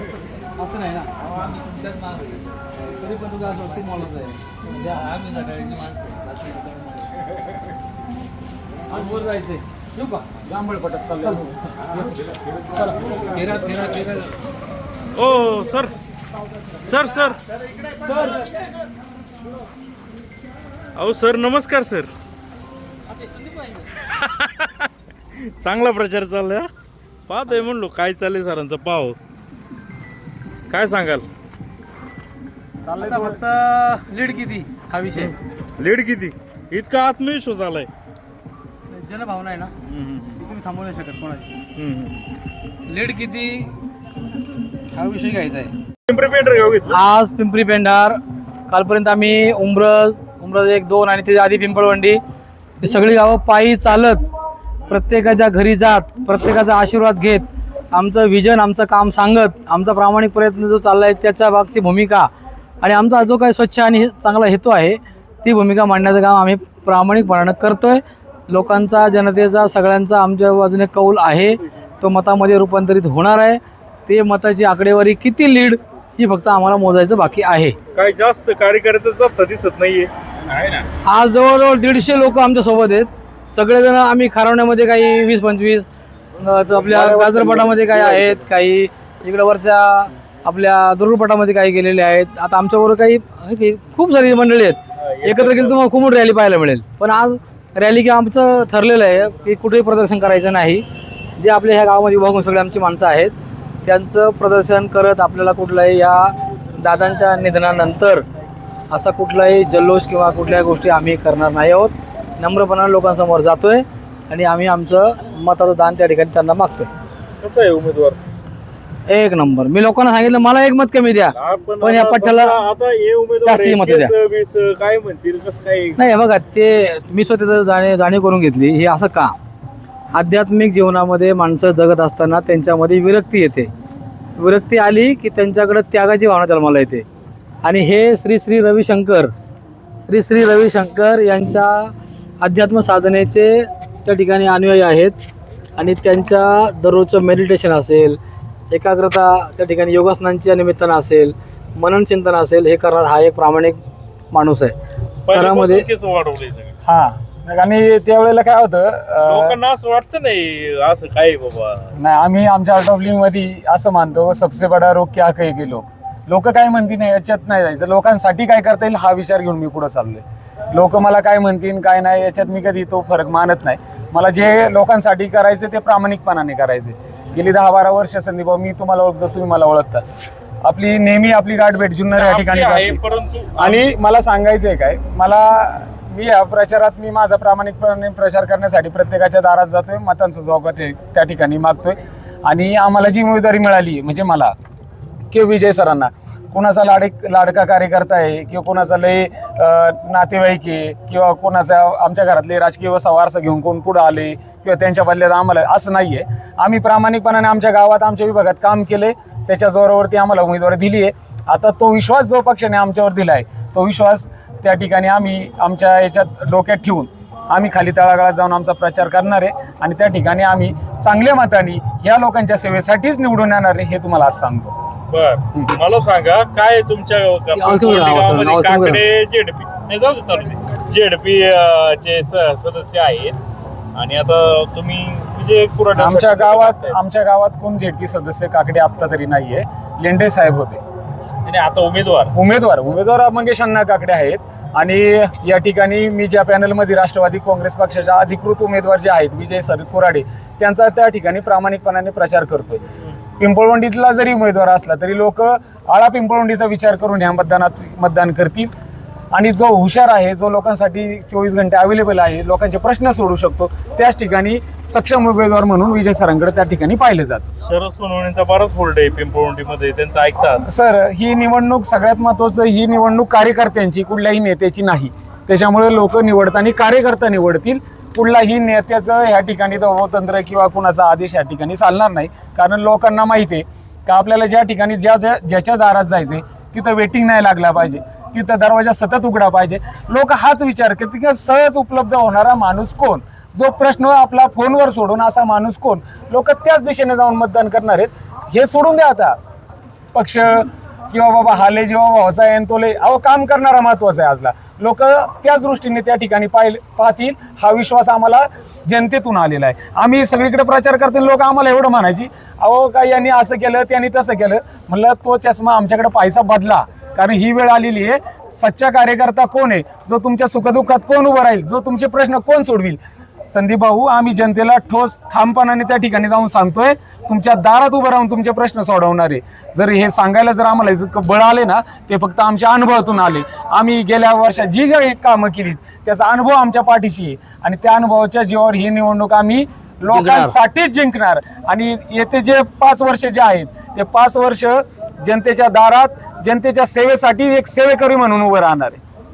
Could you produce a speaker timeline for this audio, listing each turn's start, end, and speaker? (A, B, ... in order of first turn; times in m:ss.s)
0:00.6-0:01.1 A
0:02.9-0:05.9 A
0:08.9-0:10.3 A
0:10.4-0:11.5 B
0:11.2-0:12.1 A
0:13.4-0:14.2 A
0:15.2-0:15.9 C
0:16.9-0:17.4 C
0:18.1-0:18.4 A
0:21.0-0:22.1 C
0:24.0-0:24.9 C
0:25.6-0:26.7 C
0:27.3-0:29.2 C
0:30.7-0:31.2 C
0:32.8-0:33.4 B
0:33.0-0:35.4 A
0:35.1-0:37.9 C
0:38.9-0:39.7 A
0:39.9-0:40.4 C
0:40.4-0:41.5 A
0:41.8-0:42.1 C
0:42.9-0:43.7 A
0:45.0-0:45.7 A
0:46.1-0:47.0 C
0:46.9-0:52.2 A
0:52.8-0:54.2 A
0:54.9-1:02.3 A
1:02.8-1:17.8 A
1:18.0-1:20.9 C
1:21.0-1:40.8 A
1:26.9-1:28.4 B
1:35.0-1:35.8 C
1:41.4-1:48.2 A
1:48.9-1:56.9 A
1:57.4-1:58.2 C
1:59.1-2:02.6 A
2:01.4-2:06.0 C
2:03.4-2:04.1 A
2:06.0-2:09.4 A
2:10.1-2:13.7 A
2:14.4-2:17.1 A
2:17.6-2:19.3 A
2:20.0-2:25.2 A
2:25.8-2:28.2 A
2:28.7-2:34.8 A
2:35.3-2:36.7 C
2:35.3-2:35.9 A
2:36.8-2:39.6 B
2:39.2-2:41.9 C
2:42.0-3:00.0 B
3:00.6-3:03.0 B
3:02.2-3:03.9 C
3:03.6-3:14.5 B
3:15.3-3:44.7 B
3:45.1-3:53.4 C
3:47.5-3:49.0 A
3:54.0-3:57.0 C
3:56.0-4:00.8 B
4:01.4-4:02.3 C
4:02.3-4:12.8 B
4:13.4-4:18.7 B
4:19.3-4:27.4 B
4:27.6-4:30.6 C
4:30.6-4:59.4 B
5:00.1-5:23.0 B
5:23.5-5:49.0 B
5:40.1-5:40.6 A